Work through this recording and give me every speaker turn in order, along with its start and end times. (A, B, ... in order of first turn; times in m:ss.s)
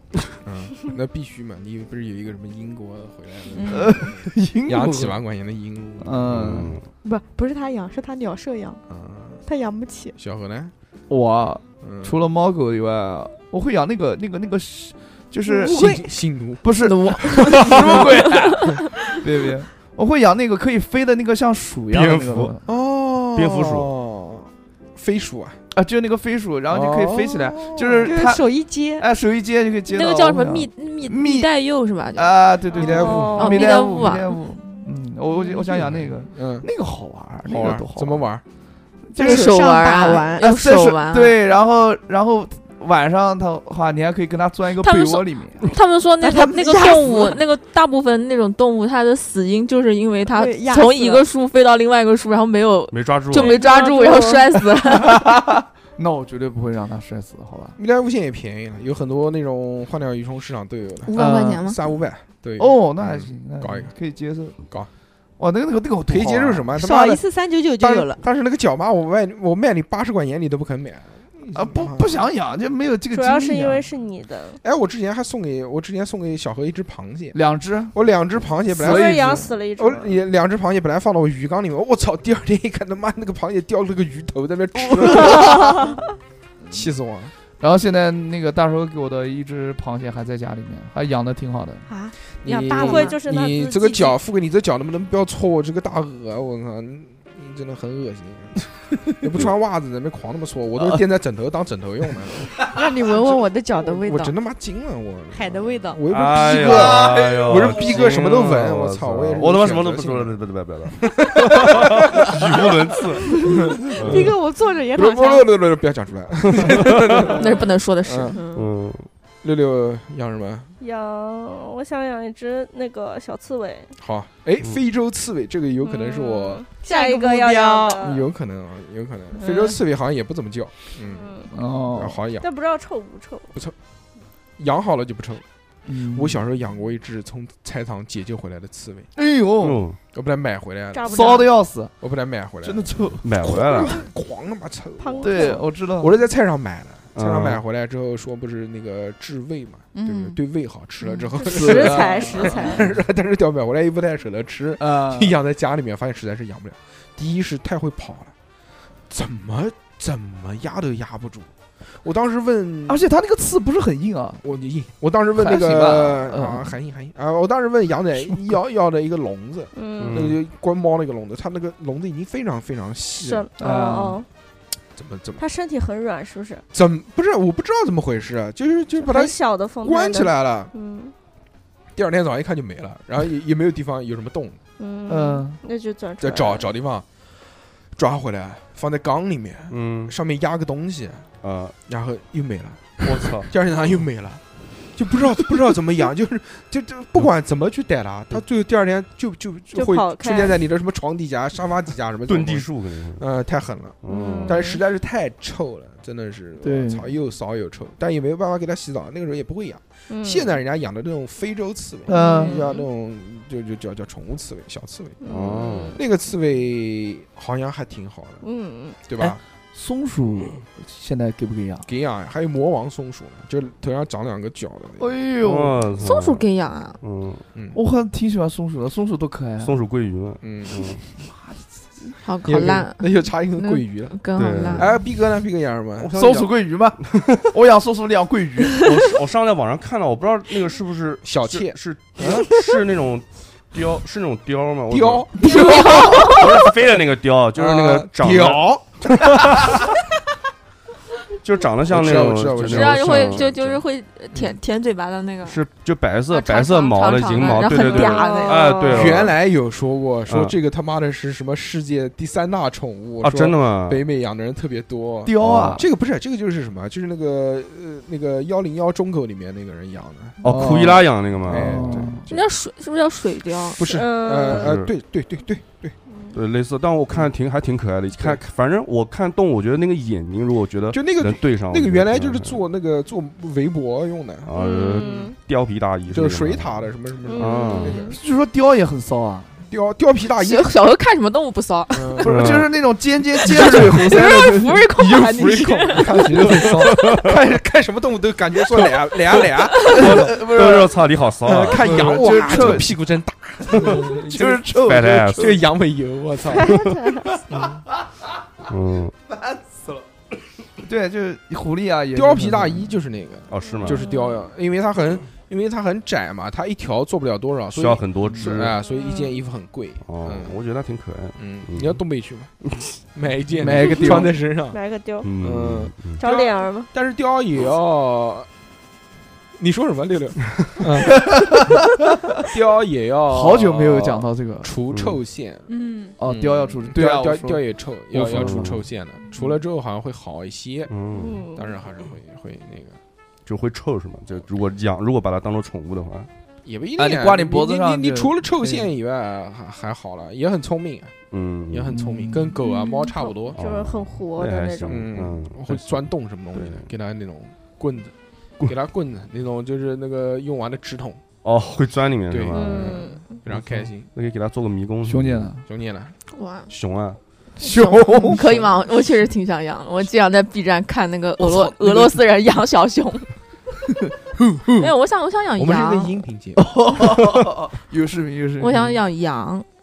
0:00.4-0:06.3 A
0:03.5-0:04.0 B
0:03.7-0:05.2 C
0:06.0-0:06.8 C
0:06.3-0:06.8 D
0:07.0-0:08.8 B
0:08.9-0:09.4 A
0:09.4-0:10.2 B
0:10.2-0:10.7 A
0:11.1-0:15.8 C
0:11.8-0:12.2 A
0:15.4-0:16.2 B
0:15.6-0:18.1 A
0:16.6-0:22.6 C
0:21.9-0:22.5 D
0:22.7-0:25.6 A
0:23.3-0:23.9 D
0:25.7-0:28.4 C
0:26.7-0:28.1 A
0:28.0-0:29.0 B
0:29.0-0:31.5 C
0:29.9-0:32.4 E
0:32.1-0:38.2 C
0:32.7-0:33.5 A
0:32.9-0:33.9 F
0:33.0-0:34.4 E
0:36.3-0:36.7 A
0:37.4-0:38.4 A
0:39.1-0:39.6 C
0:39.2-0:40.6 B
0:39.2-0:41.4 E
0:40.4-0:45.6 C
0:44.8-0:55.3 E
0:46.2-0:47.4 B
0:50.3-0:51.2 B
0:52.9-0:53.6 D
0:53.3-0:54.6 F
0:54.8-0:57.8 C
0:57.8-1:01.1 A
1:01.1-1:01.7 B
1:01.1-1:01.8 E
1:01.2-1:01.6 C
1:01.6-1:03.9 A
1:02.6-1:04.6 C
1:04.6-1:04.9 A
1:05.4-1:06.7 C
1:06.1-1:07.2 A
1:06.7-1:08.2 B
1:07.8-1:12.2 A
1:11.5-1:13.8 C
1:13.1-1:14.6 F
1:14.6-1:17.4 A
1:17.3-1:18.0 C
1:17.9-1:25.9 A
1:18.7-1:19.5 C
1:18.8-1:20.2 F
1:24.9-1:25.8 C
1:26.7-1:27.3 A
1:27.6-1:31.8 C
1:31.9-1:33.2 B
1:32.4-1:50.4 A
1:32.6-1:34.2 F
1:40.8-1:41.0 C
1:42.6-1:44.4 B
1:45.3-1:46.0 B
1:46.1-1:54.3 D
1:46.4-1:47.7 C
1:50.9-1:52.6 A
1:53.3-1:55.5 B
1:53.5-1:54.3 A
1:54.9-1:58.4 A
1:56.5-1:57.3 D
1:57.4-1:58.4 E
1:58.3-1:58.6 B
1:58.5-1:59.1 D
1:59.4-2:00.7 A
2:00.8-2:03.9 F
2:04.0-2:06.6 A
2:05.8-2:08.3 F
2:06.7-2:08.0 B
2:08.0-2:12.4 A
2:09.4-2:09.8 F
2:11.0-2:11.5 F
2:11.5-2:12.2 C
2:12.4-2:13.5 F
2:14.6-2:15.4 A
2:15.9-2:16.4 C
2:16.1-2:19.1 A
2:19.2-2:19.8 C
2:19.6-2:20.0 D
2:20.1-2:21.3 A
2:20.9-2:21.5 F
2:21.0-2:21.9 C
2:22.0-2:38.3 A
2:22.6-2:23.2 C
2:23.2-2:24.0 D
2:25.0-2:25.6 B
2:25.0-2:25.4 F
2:25.2-2:26.2 C
2:27.1-2:27.6 D
2:30.0-2:30.2 B
2:31.3-2:32.9 F
2:31.4-2:32.8 C
2:34.8-2:35.4 C
2:39.1-2:41.5 A
2:42.0-2:43.0 A
2:42.9-2:44.4 C
2:44.4-2:53.5 A
2:45.4-2:46.7 C
2:49.7-2:50.2 F
2:50.0-2:50.4 D
2:53.2-2:54.3 F
2:53.6-2:54.2 C
2:55.0-2:55.4 A
2:55.4-2:56.6 F
2:56.7-3:00.7 A
2:59.0-3:01.1 F
3:02.0-3:04.6 A
3:04.8-3:06.7 F
3:05.1-3:05.6 C
3:06.2-3:07.0 A
3:07.9-3:11.3 A
3:09.7-3:10.1 D
3:11.4-3:11.7 D
3:11.9-3:14.4 A
3:13.0-3:13.5 D
3:14.9-3:35.2 A
3:19.7-3:20.6 F
3:22.3-3:23.2 D
3:24.0-3:24.6 D
3:24.1-3:24.8 F
3:26.6-3:27.1 C
3:30.1-3:30.5 F
3:32.1-3:32.6 C
3:32.1-3:32.9 F
3:35.2-3:36.0 F
3:35.3-3:36.0 D
3:35.9-3:38.4 A
3:38.4-3:39.0 F
3:39.1-3:39.4 A
3:39.2-3:41.9 C
3:41.8-3:45.1 A
3:45.0-3:45.8 C
3:45.4-3:46.4 D
3:46.0-3:47.0 E
3:47.0-3:47.4 D
3:47.5-3:47.8 A
3:47.7-3:49.7 C
3:49.6-3:51.0 D
3:50.4-3:51.0 A
3:51.2-3:52.1 C
3:52.2-3:54.9 E
3:52.4-3:54.2 A
3:54.3-3:54.8 D
3:54.7-3:56.5 A
3:56.0-3:58.8 C
3:58.8-4:09.8 D
4:01.2-4:02.5 A
4:04.9-4:06.4 A
4:05.4-4:06.5 E
4:07.6-4:09.8 A
4:11.4-4:13.5 D
4:11.8-4:13.8 A
4:12.6-4:15.6 E
4:15.4-4:19.4 D
4:16.3-4:19.2 E
4:17.4-4:18.9 F
4:18.8-4:30.4 A
4:20.3-4:20.6 D
4:23.2-4:24.0 D
4:25.2-4:25.8 C
4:25.4-4:25.8 D
4:30.4-4:32.2 D
4:30.4-4:32.2 C
4:31.5-4:32.5 A
4:32.3-4:33.8 E
4:33.7-4:36.0 A
4:33.8-4:34.7 F
4:34.5-4:34.9 D
4:36.1-4:36.4 F
4:36.3-4:42.6 D
4:40.9-4:45.2 A
4:44.4-4:46.7 D
4:44.5-4:45.4 F
4:46.1-4:48.2 A
4:47.2-4:48.2 F
4:47.4-4:48.0 D
4:48.1-4:49.5 C
4:49.7-4:50.7 A
4:50.4-4:52.3 E
4:51.9-4:52.6 A
4:52.2-4:54.8 C
4:52.2-4:52.7 D
4:53.5-4:54.1 D
4:53.5-5:00.3 A
4:53.7-4:56.7 E
4:56.0-4:57.5 C
4:56.8-4:57.3 D
4:59.8-5:02.8 D
4:59.9-5:00.9 C
5:01.4-5:06.9 A
5:01.8-5:02.9 C
5:03.6-5:05.5 C
5:04.6-5:05.6 D
5:06.5-5:07.2 F
5:06.6-5:07.1 B
5:07.5-5:07.8 A
5:08.7-5:09.1 D
5:09.4-5:10.0 C
5:10.8-5:12.9 C
5:12.1-5:20.6 A
5:13.5-5:14.1 D
5:13.6-5:14.4 F
5:17.7-5:18.8 D
5:18.8-5:19.4 F
5:20.0-5:22.0 D
5:21.4-5:22.5 A
5:23.1-5:24.8 A
5:23.6-5:24.3 C
5:24.7-5:25.3 F
5:25.2-5:26.2 D
5:25.4-5:28.5 A
5:26.2-5:26.9 F
5:29.6-5:31.5 A
5:31.2-5:31.8 C
5:32.4-5:35.7 A
5:33.3-5:34.7 C
5:34.9-5:35.2 D
5:35.7-5:36.1 B
5:36.2-5:38.8 C
5:36.2-5:43.0 A
5:38.4-5:38.8 D
5:40.9-5:41.4 D
5:41.1-5:41.7 F
5:43.4-5:46.3 D
5:46.6-5:51.1 A
5:47.0-5:48.9 C
5:51.3-5:51.9 D
5:51.7-5:53.6 A
5:51.9-5:52.6 C
5:52.6-5:55.1 F
5:53.6-5:56.9 D
5:54.9-6:01.2 A
6:01.4-6:05.5 D
6:02.3-6:04.1 A
6:02.5-6:03.4 F
6:05.0-6:05.6 C
6:05.6-6:06.1 A
6:06.3-6:06.7 E
6:06.7-6:07.2 D
6:07.6-6:08.4 C
6:07.8-6:13.3 E
6:11.4-6:12.2 C
6:14.4-6:14.8 A
6:14.8-6:16.1 E
6:15.6-6:16.7 A
6:16.6-6:19.0 C
6:18.6-6:19.6 E